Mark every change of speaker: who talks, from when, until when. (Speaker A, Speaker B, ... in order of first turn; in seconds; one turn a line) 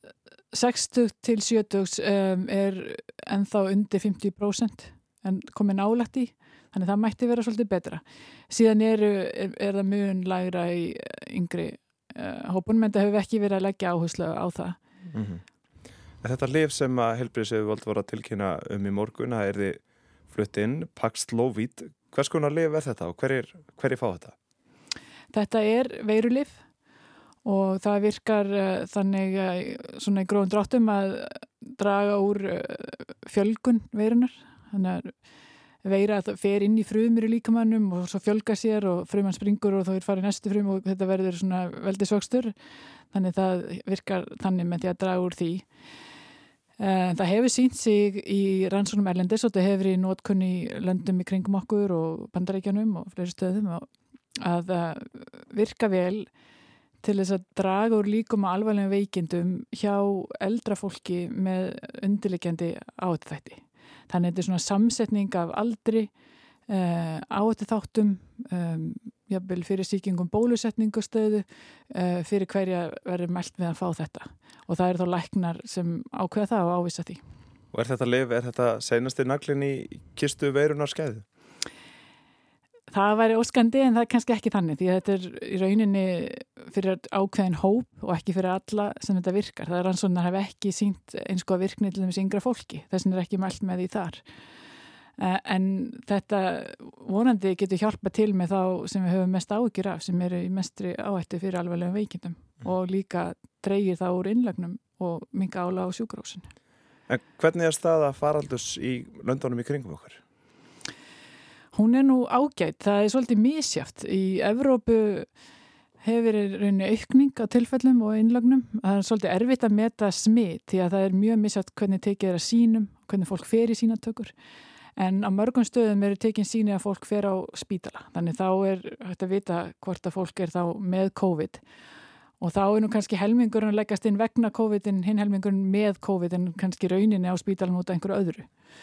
Speaker A: 0.5-14.8
Speaker B: 15.1-15.4
Speaker B: 16.2-24.4
Speaker A: 25.3-26.6
Speaker A: 27.4-35.1
Speaker A: 35.8-42.5
Speaker A: 43.1-45.7
Speaker A: 46.8-56.3
Speaker A: 57.0-66.1
Speaker A: 66.7-77.2
Speaker B: 77.7-81.2
Speaker A: 82.9-94.2
Speaker A: 95.2-106.5
Speaker B: 107.1-110.2
Speaker A: 111.7-115.3
Speaker A: 116.0-124.3
Speaker A: 125.0-131.6
Speaker A: 132.4-138.5